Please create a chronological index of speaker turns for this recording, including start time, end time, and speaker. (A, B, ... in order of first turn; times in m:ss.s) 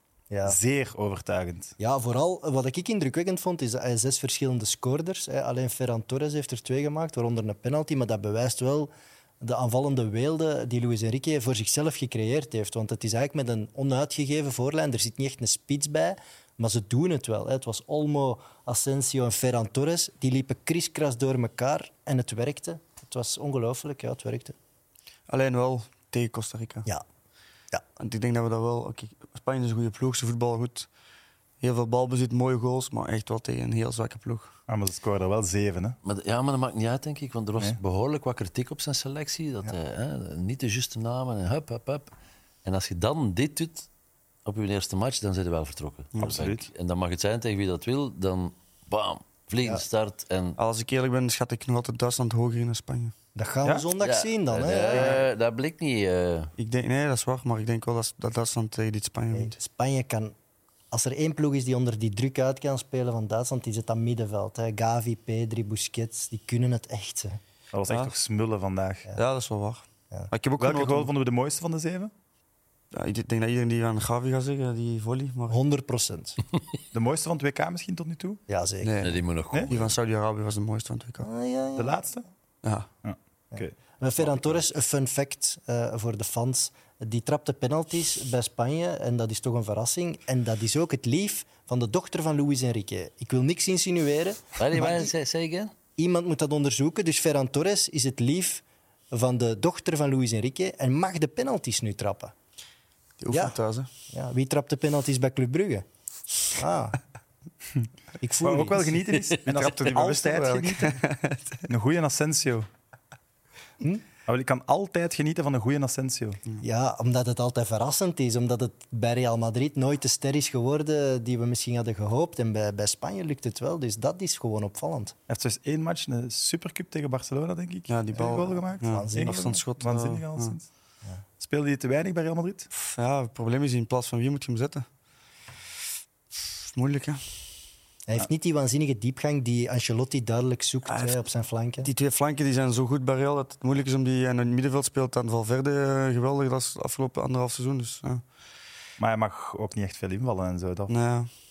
0:00.3-0:00.6 A
0:00.4-0:01.8 B
0:01.8-0:24.6 A
0:25.3-0:26.9 C
0:28.0-0:30.9 C
0:31.6-0:34.6 C
0:34.7-0:36.0 B
0:36.0-0:42.1 D
0:42.6-0:43.9 D
0:44.4-0:50.6 D
0:46.2-0:46.7 B
0:50.6-0:53.1 C
0:53.4-0:55.2 A
0:54.0-0:56.5 D
0:54.9-0:55.2 C
0:56.6-0:59.5 C
0:59.3-1:00.3 A
1:00.9-1:07.4 A
1:07.7-1:09.1 B
1:07.9-1:08.1 C
1:09.2-1:11.1 C
1:10.6-1:12.1 B
1:12.9-1:15.6 C
1:15.5-1:16.4 A
1:16.9-1:18.4 B
1:18.5-1:19.0 A
1:18.8-1:21.3 C
1:19.0-1:20.0 D
1:21.2-1:22.0 A
1:21.8-1:22.2 B
1:23.0-1:23.8 B
1:23.5-1:35.1 A
1:34.6-1:35.7 D
1:36.0-1:42.3 A
1:43.2-1:43.9 C
1:44.1-1:45.8 A
1:46.5-1:47.0 A
1:48.2-1:49.0 A
1:48.4-1:51.0 B
1:49.4-1:51.6 C
1:51.7-1:52.7 B
1:54.3-1:56.4 B
1:56.6-2:05.2 A
2:05.3-2:10.6 B
2:07.9-2:10.6 C
2:08.2-2:09.6 A
2:11.4-2:12.7 B
2:12.7-2:14.8 C
2:16.7-2:17.2 C
2:18.1-2:21.9 A
2:20.9-2:21.2 C
2:21.8-2:28.2 C
2:29.0-2:30.9 B
2:30.9-2:31.3 C